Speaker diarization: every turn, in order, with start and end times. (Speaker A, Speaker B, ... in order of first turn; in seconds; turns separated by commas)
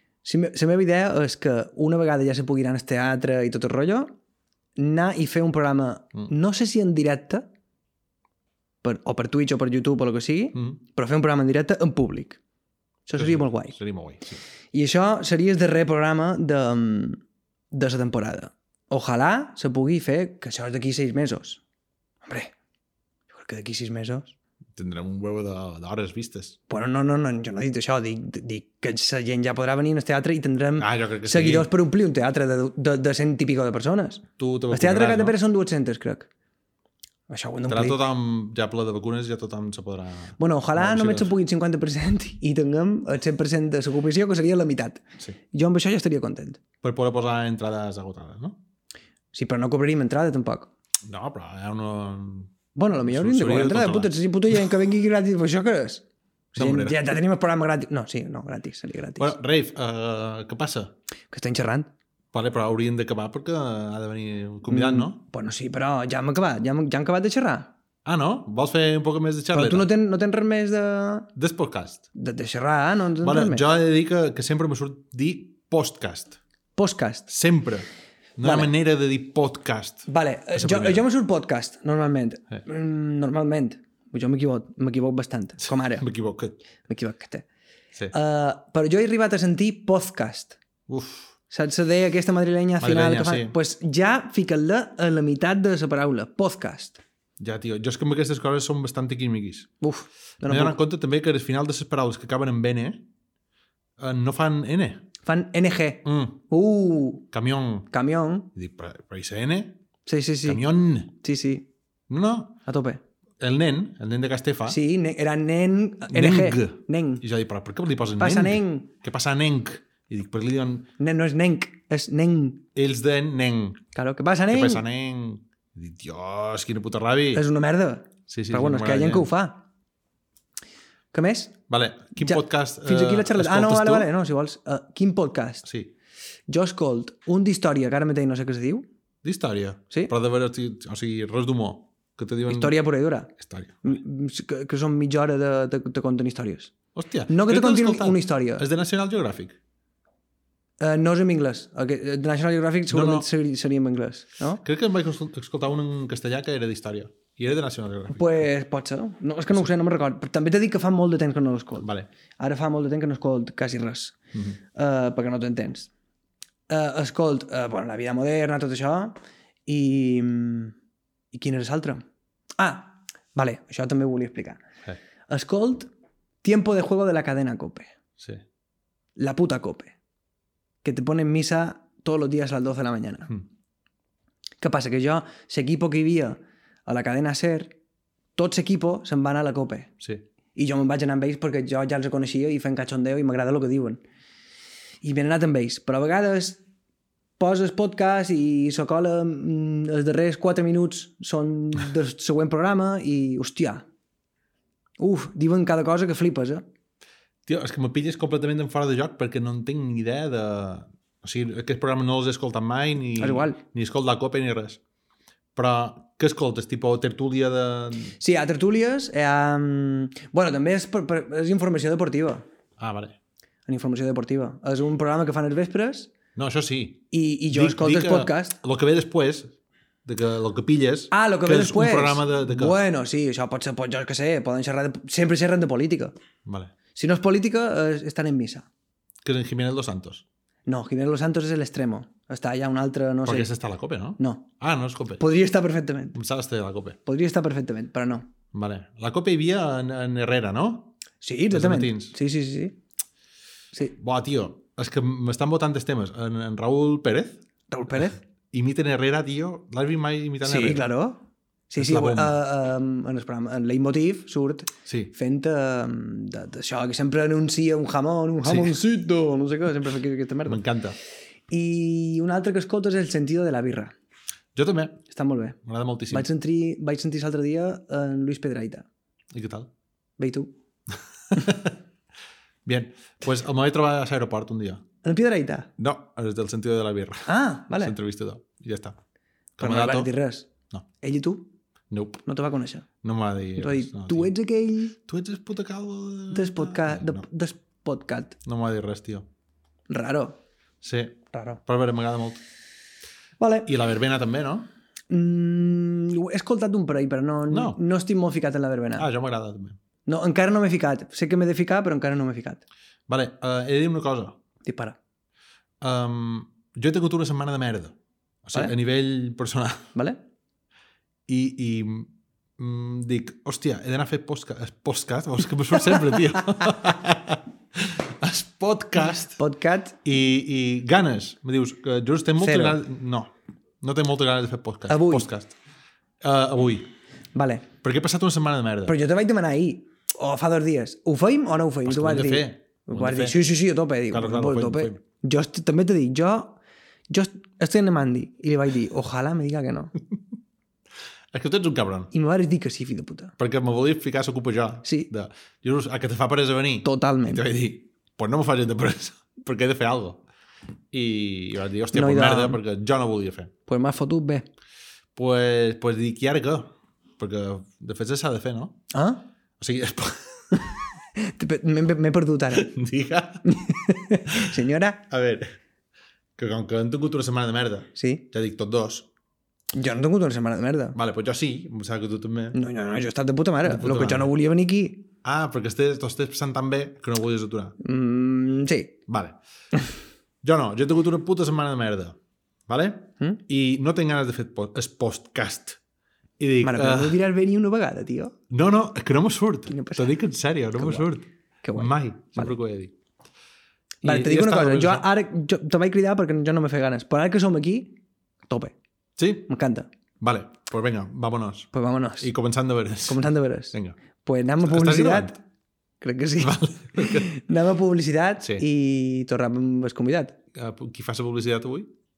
Speaker A: 0.2-4.1, Speaker A: 4.8-7.5, Speaker A: 8.8-12.4, Speaker A: 13.1-13.8, Speaker B: 13.2-14.4, Speaker A: 14.7-21.6, Speaker A: 22.2-22.5, Speaker A: 23.3-24.3, Speaker B: 24.8-26.6, Speaker A: 26.7-36.3, Speaker B: 30.8-31.7, Speaker B: 34.4-35.4, Speaker A: 37.3-38.0, Speaker B: 37.7-41.4, Speaker A: 40.4-46.6, Speaker B: 46.8-48.6, Speaker A: 49.3-50.7, Speaker B: 51.1-52.5, Speaker A: 52.8-59.3, Speaker B: 53.0-54.6, Speaker B: 56.6-57.1, Speaker B: 59.2-60.9, Speaker A: 61.3-61.9, Speaker B: 62.3-65.2, Speaker A: 64.7-67.7, Speaker B: 68.0-69.9, Speaker A: 69.5-71.3, Speaker B: 71.4-72.1, Speaker A: 72.2-73.6, Speaker B: 73.2-76.4, Speaker A: 76.8-77.3, Speaker B: 77.3-77.9, Speaker B: 78.4-81.0, Speaker A: 78.4-78.7, Speaker A: 80.1-86.1, Speaker B: 85.7-86.6, Speaker A: 86.9-87.5, Speaker A: 88.1-90.6, Speaker B: 90.9-91.3, Speaker A: 91.5-97.0, Speaker B: 92.8-93.5, Speaker B: 97.4-99.7, Speaker A: 99.8-100.8, Speaker B: 100.5-103.1, Speaker B: 104.0-105.1, Speaker A: 105.2-107.3, Speaker B: 106.0-106.4, Speaker B: 107.3-107.9, Speaker A: 107.9-108.5, Speaker B: 108.5-109.8, Speaker A: 110.1-111.7, Speaker B: 110.5-111.1, Speaker B: 112.1-112.6, Speaker A: 112.7-113.0, Speaker B: 113.4-114.8, Speaker A: 114.7-117.2, Speaker B: 116.1-120.9, Speaker A: 118.2-118.9, Speaker A: 121.0-122.7, Speaker B: 122.8-123.8, Speaker A: 123.9-124.8, Speaker B: 124.5-127.4, Speaker A: 127.3-129.7, Speaker B: 128.3-129.3, Speaker A: 131.1-131.6, Speaker B: 131.7-134.1, Speaker A: 132.2-135.7, Speaker B: 135.6-135.9, Speaker A: 136.5-138.9, Speaker B: 139.2-142.8, Speaker A: 142.5-143.3, Speaker B: 143.4-144.0, Speaker A: 143.8-146.7, Speaker B: 146.9-149.6, Speaker A: 147.3-148.7, Speaker A: 150.8-154.6, Speaker B: 152.9-153.3, Speaker B: 154.6-158.4, Speaker A: 158.1-161.9, Speaker B: 161.8-162.1, Speaker A: 162.4-164.2, Speaker A: 164.7-165.9, Speaker A: 166.7-170.8, Speaker A: 171.3-172.0, Speaker A: 172.6-174.6, Speaker A: 175.3-175.9, Speaker A: 176.4-177.9, Speaker A: 179.2-179.9, Speaker A: 180.8-183.3, Speaker A: 184.6-187.8, Speaker A: 188.4-190.0, Speaker A: 190.6-194.0, Speaker A: 195.0-196.6, Speaker A: 197.4-203.8, Speaker A: 205.0-206.6, Speaker B: 207.5-214.8, Speaker A: 213.2-213.6, Speaker B: 215.6-218.2, Speaker A: 218.2-222.4, Speaker B: 222.8-223.2, Speaker A: 223.7-226.1, Speaker B: 226.4-232.8, Speaker A: 227.1-228.6, Speaker A: 231.1-236.2, Speaker B: 236.4-236.7, Speaker A: 236.9-238.7, Speaker B: 239.2-240.2, Speaker A: 240.7-243.5, Speaker B: 243.2-245.2, Speaker A: 244.2-244.5, Speaker A: 245.2-246.2, Speaker B: 246.1-247.0, Speaker A: 247.1-248.3, Speaker B: 248.5-251.0, Speaker A: 251.2-252.8, Speaker B: 251.5-252.2, Speaker B: 254.0-257.4, Speaker A: 257.7-258.2, Speaker B: 258.5-260.9, Speaker A: 260.4-270.6, Speaker B: 261.8-262.4, Speaker B: 264.9-265.1, Speaker B: 268.4-268.7, Speaker B: 270.5-271.0, Speaker A: 271.5-273.9, Speaker B: 274.6-275.0, Speaker A: 275.1-275.6, Speaker B: 275.6-276.3, Speaker A: 276.1-278.9, Speaker B: 279.3-279.7, Speaker A: 280.2-280.5, Speaker B: 281.3-281.8, Speaker B: 282.6-284.8, Speaker A: 285.0-285.7, Speaker B: 285.8-289.0, Speaker A: 287.3-288.0, Speaker B: 289.6-290.1, Speaker A: 289.6-290.5, Speaker A: 291.0-291.5, Speaker B: 291.9-292.2, Speaker A: 292.2-292.9, Speaker B: 293.0-294.3, Speaker A: 293.6-295.0, Speaker B: 295.1-297.2, Speaker A: 296.3-298.4, Speaker B: 298.4-299.3, Speaker A: 299.9-300.4, Speaker B: 300.8-302.4, Speaker A: 301.3-301.6, Speaker A: 303.4-303.7, Speaker B: 303.7-304.7, Speaker A: 305.1-309.1, Speaker B: 307.5-307.8, Speaker B: 309.0-309.8, Speaker A: 310.1-312.6, Speaker B: 313.1-314.4, Speaker A: 314.6-315.0, Speaker B: 315.8-319.9, Speaker B: 321.3-329.4, Speaker A: 329.2-330.0, Speaker B: 330.0-335.6, Speaker A: 332.4-332.8, Speaker A: 334.9-335.3, Speaker B: 336.2-336.9, Speaker A: 337.4-337.7, Speaker B: 337.8-339.0, Speaker A: 338.9-346.6, Speaker B: 341.9-343.4, Speaker B: 344.1-345.0, Speaker A: 347.1-349.9, Speaker B: 351.3-352.1, Speaker A: 352.1-353.4, Speaker B: 353.4-360.2, Speaker A: 354.8-355.1, Speaker A: 356.8-357.4, Speaker B: 360.9-363.5, Speaker A: 361.9-362.6, Speaker A: 363.7-364.5, Speaker B: 365.1-368.8, Speaker A: 368.9-369.2, Speaker B: 369.6-370.6, Speaker A: 371.2-372.7, Speaker B: 372.6-373.5, Speaker A: 373.4-375.0, Speaker B: 375.1-375.6, Speaker B: 376.4-379.1, Speaker A: 378.0-378.2, Speaker A: 379.7-381.0, Speaker B: 380.9-382.6, Speaker A: 382.5-385.1, Speaker B: 383.6-384.3, Speaker B: 385.2-387.8, Speaker A: 387.8-389.0, Speaker B: 389.1-389.4, Speaker B: 390.4-392.2, Speaker B: 392.7-395.8, Speaker B: 396.4-397.2, Speaker A: 396.6-398.4, Speaker B: 398.5-402.9, Speaker A: 399.7-400.1, Speaker A: 400.8-401.1, Speaker A: 401.6-402.5, Speaker A: 404.0-408.0, Speaker B: 404.0-405.1, Speaker A: 408.5-408.7, Speaker B: 409.2-409.5, Speaker A: 409.5-409.9, Speaker B: 410.2-414.0, Speaker A: 411.7-412.3, Speaker A: 413.1-415.4, Speaker B: 414.6-415.4, Speaker A: 416.0-420.4, Speaker B: 416.4-417.3, Speaker B: 420.5-421.9